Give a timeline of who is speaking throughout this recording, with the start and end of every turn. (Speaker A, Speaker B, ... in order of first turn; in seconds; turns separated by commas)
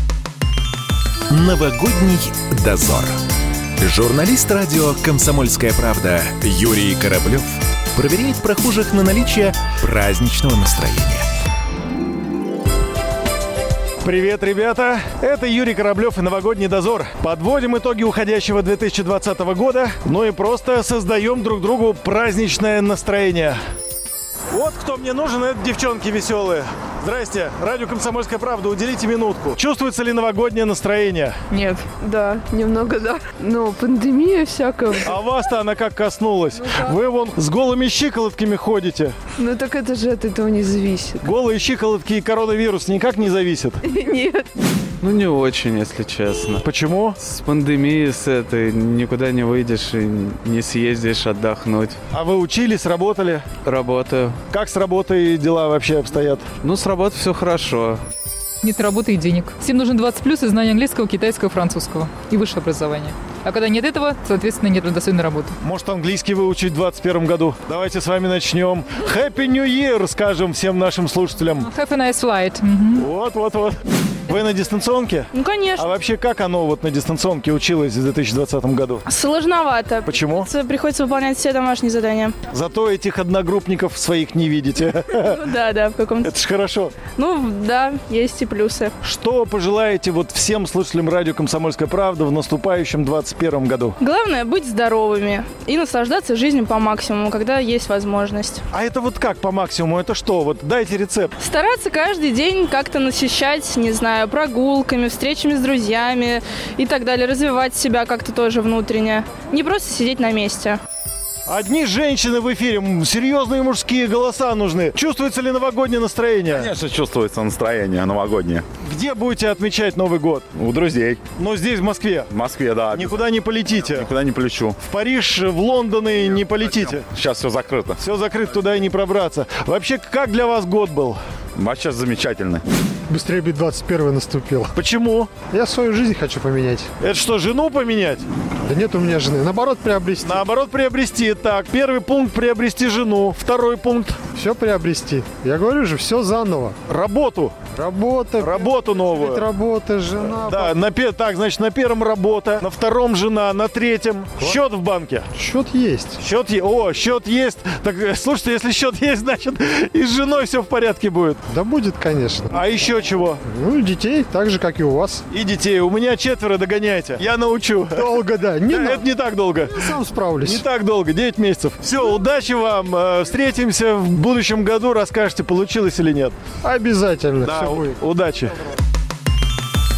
Speaker A: 1.3-3.2, Speaker A: 3.8-11.2, Speaker B: 14.0-23.6, Speaker B: 24.5-31.4, Speaker C: 31.6-35.2, Speaker B: 35.0-39.2, Speaker C: 39.4-41.3, Speaker B: 41.2-43.8, Speaker C: 43.9-44.5, Speaker D: 45.0-46.6, Speaker B: 46.6-47.2, Speaker D: 47.2-52.0, Speaker B: 52.1-53.6, Speaker D: 53.6-54.4, Speaker B: 54.5-56.5, Speaker D: 56.6-58.0, Speaker E: 58.6-65.5, Speaker B: 65.6-71.7, Speaker E: 71.6-73.0, Speaker B: 73.0-79.0, Speaker F: 75.3-75.9, Speaker F: 79.0-82.4, Speaker B: 80.0-80.5, Speaker B: 82.5-85.3, Speaker F: 85.2-86.3, Speaker B: 86.2-87.0, Speaker F: 87.1-88.9, Speaker B: 89.0-94.0, Speaker F: 94.0-98.6, Speaker B: 98.7-101.3, Speaker F: 101.4-110.8, Speaker B: 111.5-116.7, Speaker G: 116.5-118.7, Speaker B: 118.8-120.5, Speaker G: 120.5-121.3, Speaker B: 121.3-122.3, Speaker G: 122.3-123.3, Speaker B: 122.9-124.1, Speaker G: 123.8-124.8, Speaker B: 124.8-127.1, Speaker G: 126.8-128.0, Speaker B: 128.0-131.2, Speaker G: 131.6-132.6, Speaker H: 133.1-134.7, Speaker B: 134.7-135.3, Speaker H: 135.5-136.9, Speaker B: 137.0-138.2, Speaker H: 138.7-140.4, Speaker B: 140.2-144.2, Speaker H: 144.3-146.8, Speaker B: 146.9-147.6, Speaker H: 147.7-150.8, Speaker B: 148.4-149.4, Speaker B: 150.3-155.3, Speaker H: 155.3-156.2, Speaker B: 156.2-161.4, Speaker H: 161.5-162.6, Speaker B: 162.5-163.4, Speaker H: 163.4-165.2, Speaker B: 165.3-168.1, Speaker H: 167.9-169.1, Speaker B: 168.7-176.4, Speaker H: 169.7-170.6, Speaker H: 176.6-178.0, Speaker B: 177.4-178.6